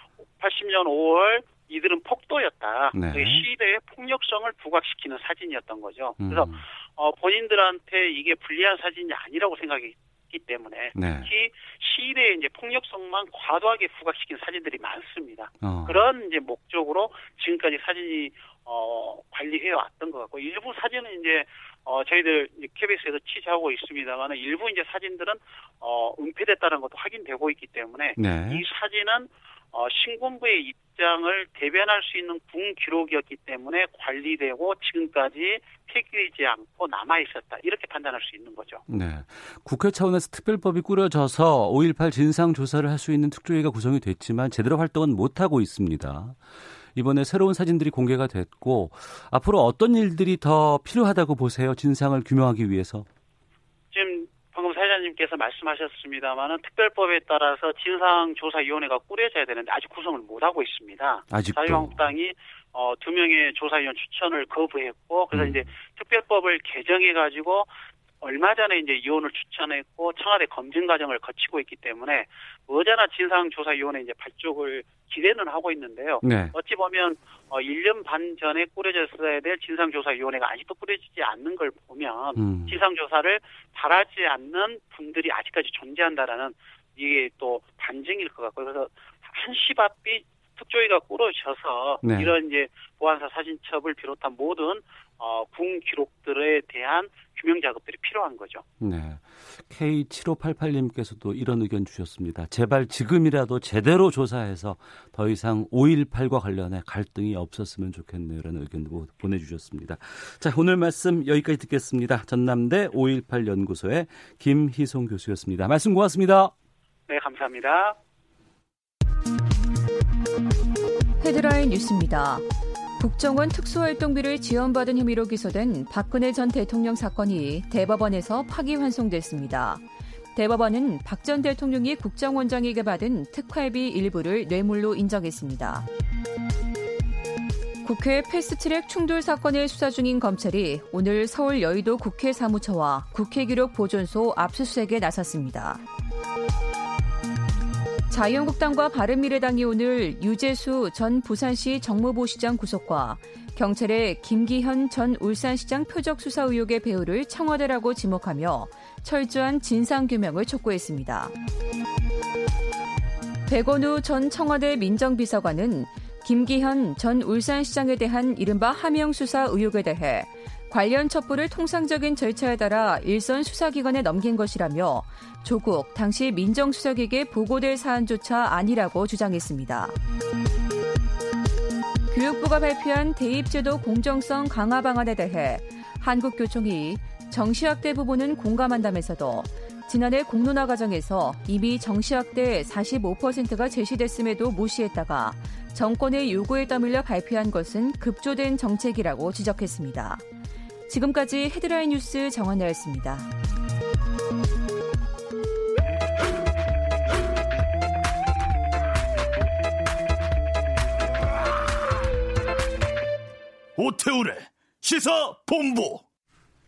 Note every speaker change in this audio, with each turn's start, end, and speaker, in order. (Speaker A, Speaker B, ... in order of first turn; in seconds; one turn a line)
Speaker A: 0.4-38.8
Speaker B: 2.9-3.5
Speaker B: 6.2-6.6
Speaker B: 10.9-11.3
Speaker B: 15.6-16.1
Speaker B: 28.2-28.6
Speaker B: 38.9-46.4
Speaker B: 46.9-53.1
Speaker A: 53.9-67.7
Speaker B: 61.3-62.0
Speaker B: 65.3-65.7
Speaker A: 68.2-98.6
Speaker B: 76.2-76.5
Speaker B: 82.3-82.8
Speaker B: 92.0-92.3
Speaker B: 98.8-116.5
Speaker A: 117.1-118.0
Speaker C: 121.2-122.5
Speaker C: 123.0-135.9
Speaker C: 137.8-145.8
Speaker C: 148.1-161.3
Speaker C: 163.5-180.0
Speaker C: 182.1-200.2
Speaker C: 200.9-203.3
Speaker D: 213.8-216.0